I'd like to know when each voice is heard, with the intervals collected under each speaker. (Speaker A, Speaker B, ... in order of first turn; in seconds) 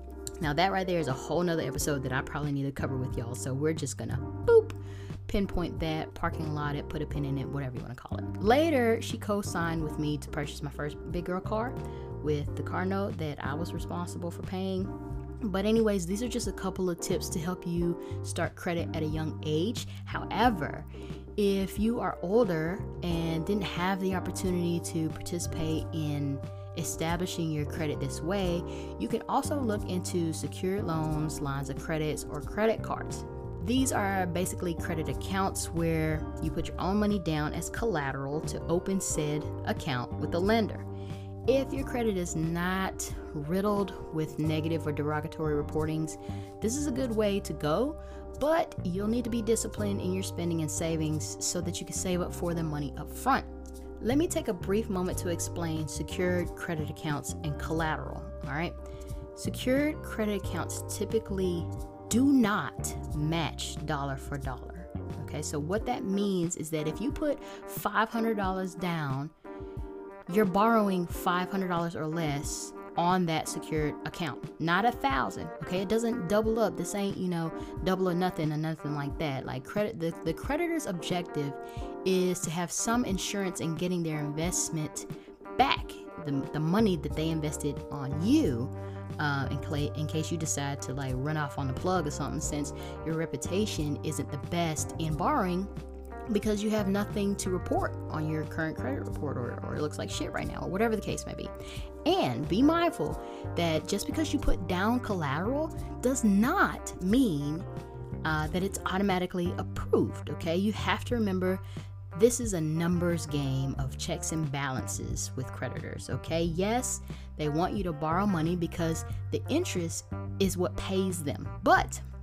Speaker A: 0.4-40.9, 41.5-53.5, 54.0-58.8, 59.3-69.3, 70.3-95.7, 96.3-101.5, 102.0-107.7, 108.2-111.6, 112.1-122.0